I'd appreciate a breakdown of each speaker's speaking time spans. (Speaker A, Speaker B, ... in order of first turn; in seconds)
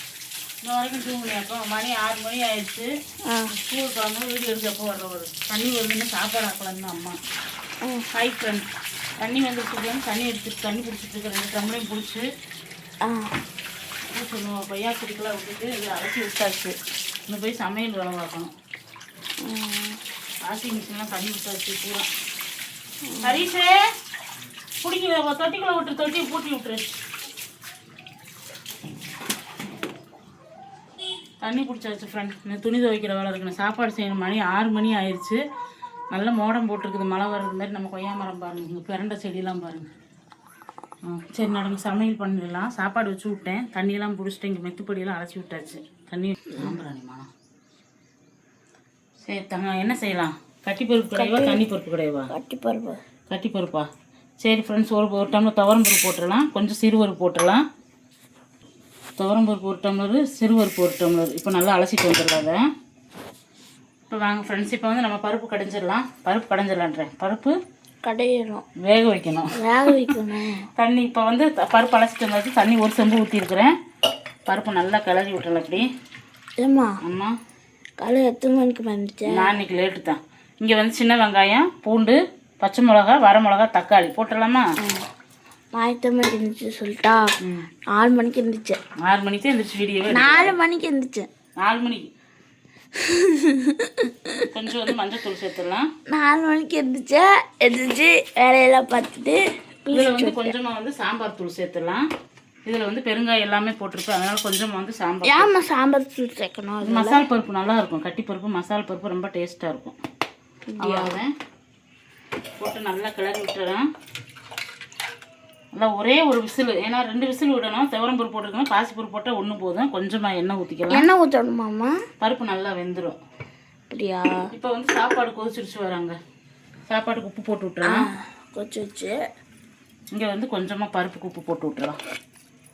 Speaker A: 0.6-2.9, 3.6-7.2, 8.1-8.7, 9.2-12.2, 14.1-16.8, 17.3-18.5, 20.4-22.1, 23.2-23.8, 24.8-26.9, 31.4-35.4, 36.1-39.9, 41.0-47.3, 49.2-52.3, 53.3-53.9, 54.4-57.6, 59.2-62.6, 64.1-67.6, 68.8-70.2, 70.8-73.7, 74.5-75.9, 77.0-77.4, 79.3-84.7, 87.4-87.7, 89.0-90.6, 91.6-92.1, 94.5-95.9, 99.9-102.0, 102.7-105.5, 106.8-110.0, 110.8-111.3, 112.6-113.8, 115.7-121.1, 122.2-123.2, 124.5-126.2, 126.9-128.0, 130.1-132.0
Speaker B: 13.0-13.4, 19.4-20.0, 23.1-23.4, 51.2-51.6, 52.3-53.0, 68.0-68.6, 69.5-70.7, 76.6-77.0, 78.0-79.5, 84.8-85.0, 85.7-87.4, 88.0-88.8, 90.1-91.3, 93.0-94.5, 96.1-100.5, 105.2-107.2, 110.7-111.2, 120.9-121.9, 123.9-124.4, 127.8-129.1